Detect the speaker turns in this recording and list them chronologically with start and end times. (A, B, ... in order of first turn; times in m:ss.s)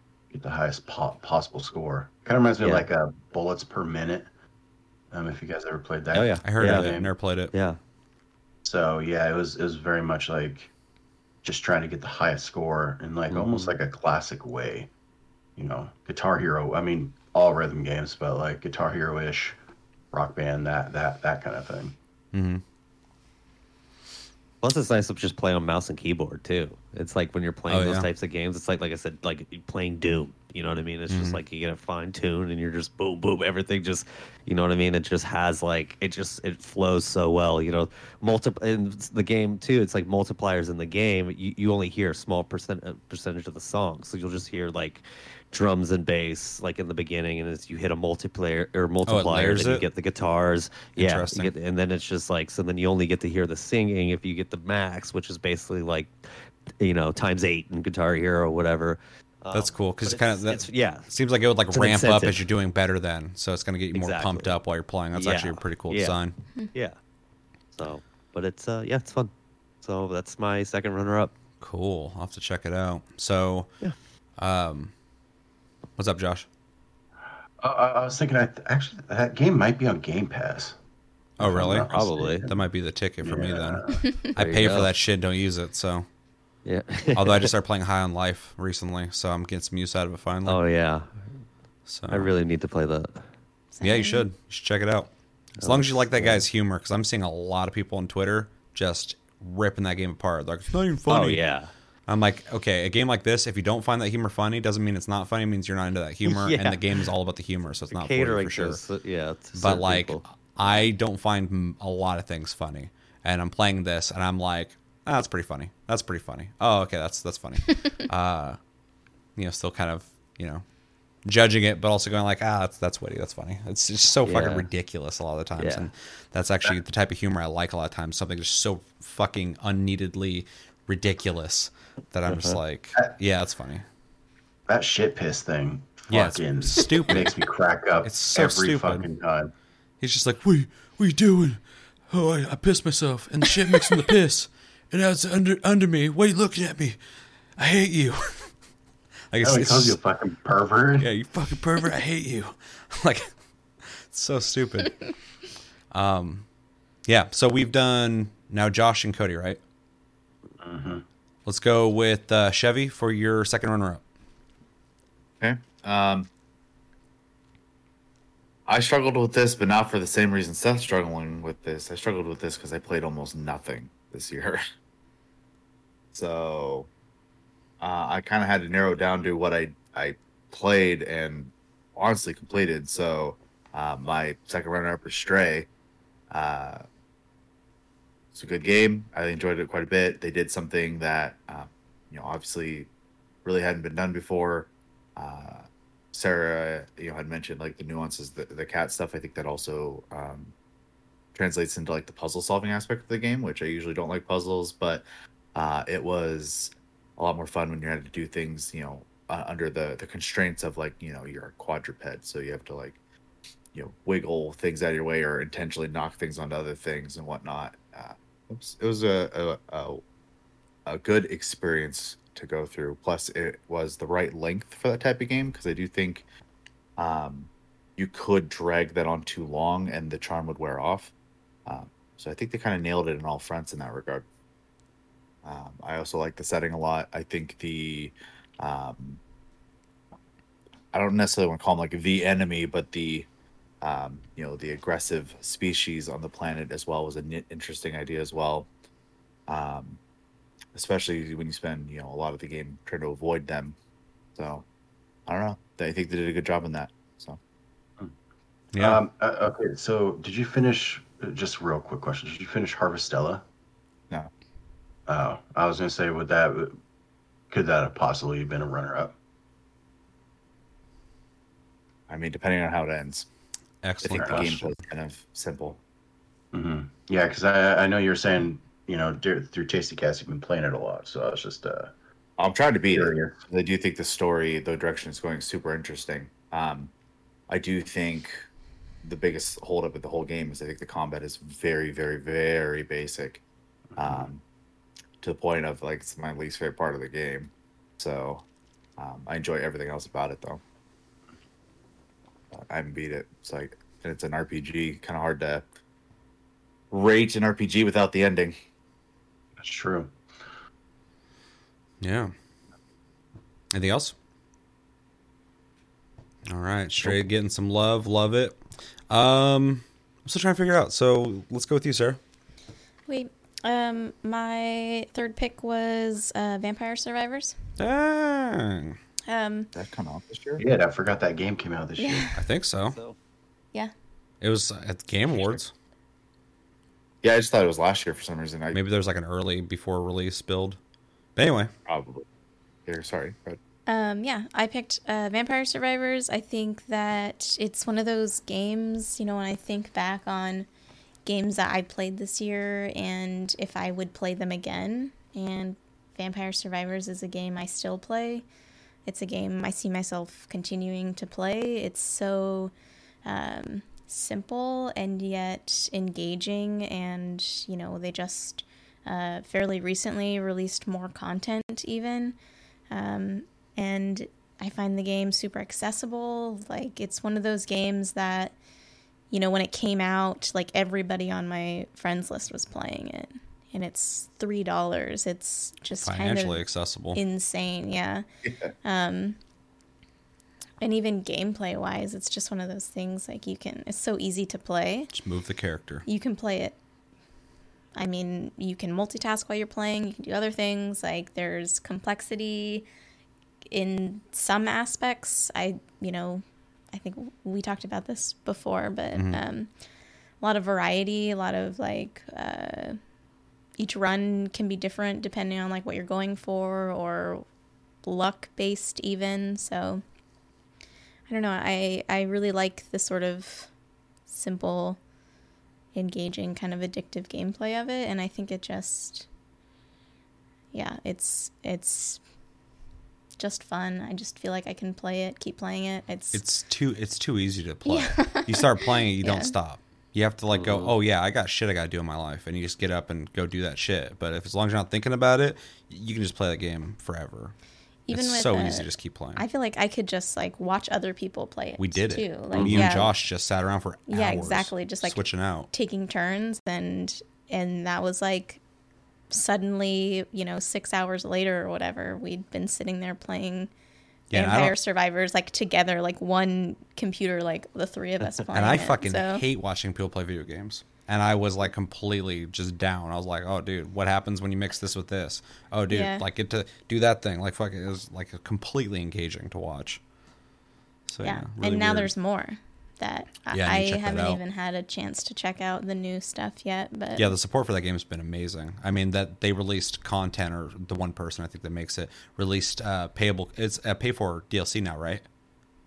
0:00.3-0:04.3 A
0:02.6-0:02.8 B
0:05.1-0:07.1 A
0:06.1-0:06.9 B
0:06.4-0:07.5 C
0:07.5-0:07.8 B
0:08.6-0:10.7 A
0:11.4-0:14.9 A
0:13.3-0:13.7 B
0:15.6-0:19.6 A
0:20.1-0:22.0 A
0:22.3-0:22.6 C
0:24.6-0:56.1 B
0:27.7-0:28.1 C
0:31.1-0:31.4 C
0:49.1-0:49.8 C
0:50.9-0:51.5 C
0:56.8-1:01.1 B
0:59.5-1:06.4 C
1:01.7-1:02.4 B
1:03.9-1:04.6 B
1:05.1-1:06.2 B
1:06.7-1:07.0 B
1:07.7-1:09.3 B
1:09.8-1:11.3 B
1:11.6-1:13.7 C
1:14.4-1:14.9 C
1:16.0-1:16.4 C
1:17.6-1:20.7 A
1:21.4-1:21.9 C
1:21.4-1:22.6 A
1:21.9-1:22.5 B
1:22.4-1:26.1 C
1:23.2-1:24.0 A
1:24.4-1:24.9 B
1:26.6-1:27.5 B
1:27.2-1:30.6 C
1:30.4-1:31.3 B
1:31.9-1:32.3 C
1:32.1-1:33.3 B
1:33.8-1:34.2 D
1:33.8-1:41.4 C
1:35.6-1:36.4 B
1:41.1-1:41.7 B
1:42.1-1:48.8 C
1:46.2-1:47.1 B
1:47.9-1:50.2 B
1:49.5-1:58.6 C
1:59.4-2:00.6 C
2:01.2-2:13.8 C
2:04.2-2:04.7 B
2:05.6-2:05.9 B
2:12.3-2:12.6 B
2:14.7-2:19.5 A
2:16.1-2:17.4 C
2:18.0-2:19.0 C
2:20.0-2:27.0 C
2:27.6-2:28.5 C
2:29.3-2:30.0 C
2:29.4-2:31.1 A
2:31.0-2:33.3 C
2:33.8-2:35.1 C
2:35.9-2:36.4 C
2:37.0-2:39.6 C
2:40.6-2:41.0 A
2:41.4-2:44.0 C
2:45.4-2:46.3 E
2:48.6-2:54.6 E
2:56.1-2:56.9 E
2:57.8-3:05.7 E
3:06.3-3:06.8 E
3:08.3-3:12.9 E
3:13.4-3:20.5 E
3:21.3-3:33.0 E
3:33.7-3:40.0 E
3:40.8-3:46.3 E
3:47.0-3:51.1 E
3:51.6-3:54.2 E
3:55.4-3:59.2 E
4:00.9-4:03.3 E
4:03.8-4:08.7 E
4:09.5-4:10.0 E
4:10.7-4:13.8 E
4:14.3-4:14.6 E
4:15.3-4:17.4 E
4:18.7-4:19.0 C
4:18.8-4:23.4 A
4:25.1-4:26.8 A
4:27.5-4:29.1 A
4:32.1-4:33.3 E
4:33.8-4:34.7 C
4:34.0-4:35.8 E
4:34.2-4:34.5 A
4:36.5-4:41.9 A
4:42.4-4:46.9 E
4:42.9-4:43.3 A
4:47.5-4:48.4 E
4:49.0-4:53.4 E
4:54.0-4:54.3 A
4:54.0-4:54.4 E
4:55.2-4:58.4 E
4:59.0-5:00.6 E
5:02.5-5:05.6 E
5:06.9-5:08.6 E
5:09.6-5:10.1 A
5:12.0-5:12.3 C
5:13.7-5:14.1 C
5:16.5-5:22.2 C
5:23.1-5:27.6 D
5:27.8-5:29.0 C
5:29.3-5:29.7 D
5:29.7-5:30.6 E
5:30.6-5:32.3 A
5:32.0-5:32.5 D
5:32.4-5:33.0 C
5:34.4-5:35.7 C
5:37.2-5:38.8 E
5:38.7-5:40.8 C
5:41.4-5:41.7 C
5:41.9-5:42.2 E
5:42.8-5:43.6 E
5:43.9-5:50.7 D
5:51.2-5:58.4 D
5:59.0-6:02.7 D
6:03.2-6:12.4 D
6:12.9-6:18.6 D
6:19.3-6:26.6 D
6:26.0-6:27.2 C
6:27.1-6:28.2 D
6:28.8-6:29.4 D
6:30.8-6:35.1 D
6:35.1-6:36.0 C
6:36.0-6:36.8 D
6:38.0-6:42.8 D
6:43.7-6:49.7 D
6:49.1-6:49.4 C
6:50.4-6:53.0 D
6:53.8-6:57.4 D
6:58.0-7:00.0 D
7:01.3-7:03.7 D
7:04.3-7:05.0 D
7:05.9-7:09.3 D
7:10.7-7:12.2 D
7:13.4-7:16.4 D
7:16.3-7:27.5 C
7:17.8-7:19.6 D
7:20.5-7:20.9 B
7:28.1-7:33.1 D
7:28.1-7:29.4 C
7:31.8-7:35.7 C
7:34.1-7:38.6 D
7:39.3-7:43.7 D
7:44.3-7:44.7 C
7:44.3-7:49.4 D
7:48.5-8:00.0 C
7:55.9-7:56.2 D
8:01.1-8:02.1 C
8:01.2-8:07.3 D
8:03.5-8:04.4 C
8:07.2-8:15.2 C